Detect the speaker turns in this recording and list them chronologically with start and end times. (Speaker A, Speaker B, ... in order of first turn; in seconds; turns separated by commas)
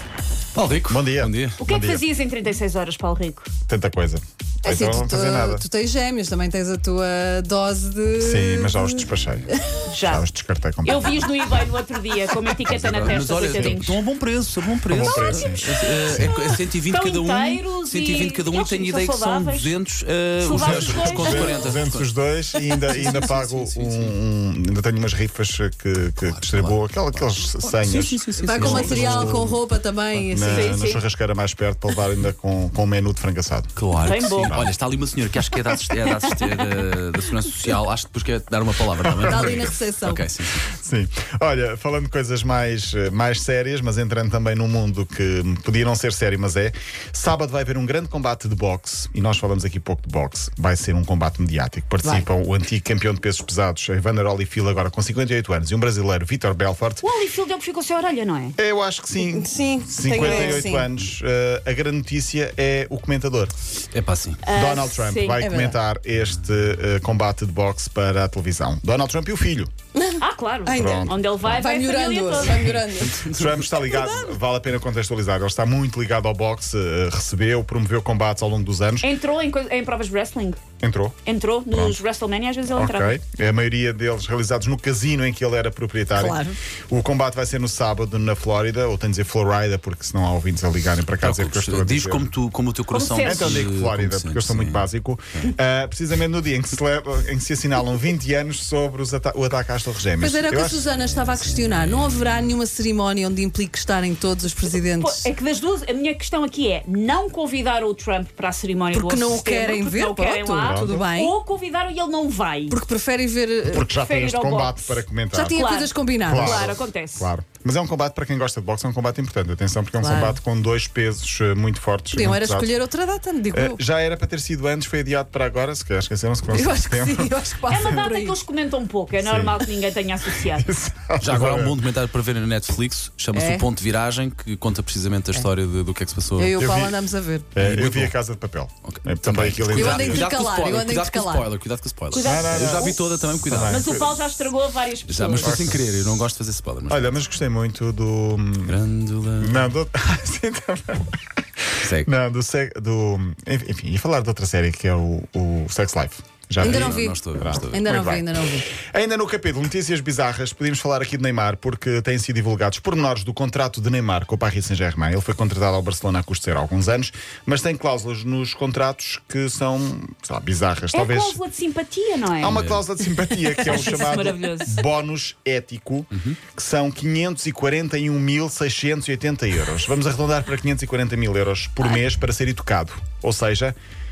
Speaker A: 0.6-1.6, Speaker B: 0.9-2.0, Speaker C: 1.6-3.5, Speaker B: 3.7-5.6, Speaker D: 4.6-9.8, Speaker B: 8.2-9.5, Speaker C: 9.9-10.2, Speaker B: 10.1-11.2, Speaker C: 10.8-14.0, Speaker A: 12.6-22.1, Speaker B: 14.9-16.6, Speaker C: 16.9-19.7, Speaker C: 20.4-21.6, Speaker B: 20.6-29.6, Speaker A: 22.9-24.1, Speaker A: 26.2-29.6, Speaker D: 28.4-30.9, Speaker B: 30.3-34.7, Speaker C: 30.5-31.0, Speaker A: 33.8-40.7, Speaker C: 34.0-34.6, Speaker C: 36.2-36.6, Speaker B: 39.0-39.7, Speaker D: 39.2-40.3, Speaker B: 40.7-57.1, Speaker C: 57.0-58.6, Speaker B: 58.6-63.5, Speaker D: 59.2-60.9, Speaker A: 60.2-60.6, Speaker A: 63.9-64.5, Speaker C: 64.4-65.5, Speaker B: 64.5-69.7, Speaker D: 65.4-65.8, Speaker D: 70.0-73.2, Speaker C: 70.2-72.7, Speaker B: 70.7-71.6, Speaker A: 72.7-73.7, Speaker B: 73.3-79.1, Speaker D: 73.7-74.3, Speaker C: 79.0-80.6, Speaker B: 80.8-81.2, Speaker C: 81.2-83.2, Speaker B: 82.7-92.3, Speaker D: 86.2-86.6, Speaker A: 91.2-94.9, Speaker C: 92.9-93.5, Speaker B: 93.2-101.0, Speaker D: 100.2-105.3, Speaker A: 101.1-102.5, Speaker C: 105.0-112.8, Speaker D: 108.9-111.3, Speaker B: 110.6-111.0, Speaker D: 112.7-113.9, Speaker B: 113.7-115.6, Speaker C: 113.9-117.3, Speaker D: 115.3-116.7, Speaker B: 116.2-122.7, Speaker D: 120.0-120.4, Speaker D: 122.1-123.8, Speaker B: 123.5-128.0, Speaker D: 126.5-128.4, Speaker C: 127.7-130.7, Speaker B: 129.2-129.6, Speaker B: 130.4-131.8, Speaker A: 131.2-136.6, Speaker D: 133.3-133.7, Speaker D: 136.4-137.5, Speaker B: 136.6-137.0, Speaker B: 137.5-140.3, Speaker A: 137.6-138.2, Speaker A: 138.9-143.9, Speaker D: 139.7-141.5, Speaker C: 142.1-143.0, Speaker B: 142.2-143.0, Speaker B: 143.5-144.2, Speaker C: 143.7-145.6, Speaker A: 145.0-147.1, Speaker B: 145.4-145.8, Speaker B: 146.9-148.8, Speaker A: 148.7-149.7, Speaker B: 149.4-151.2, Speaker A: 151.8-152.1, Speaker B: 152.0-158.3, Speaker D: 156.6-158.7, Speaker A: 156.6-157.8, Speaker B: 158.9-171.4, Speaker C: 170.9-172.6, Speaker B: 172.4-183.8, Speaker A: 172.4-172.9, Speaker C: 173.6-174.8, Speaker A: 176.1-176.4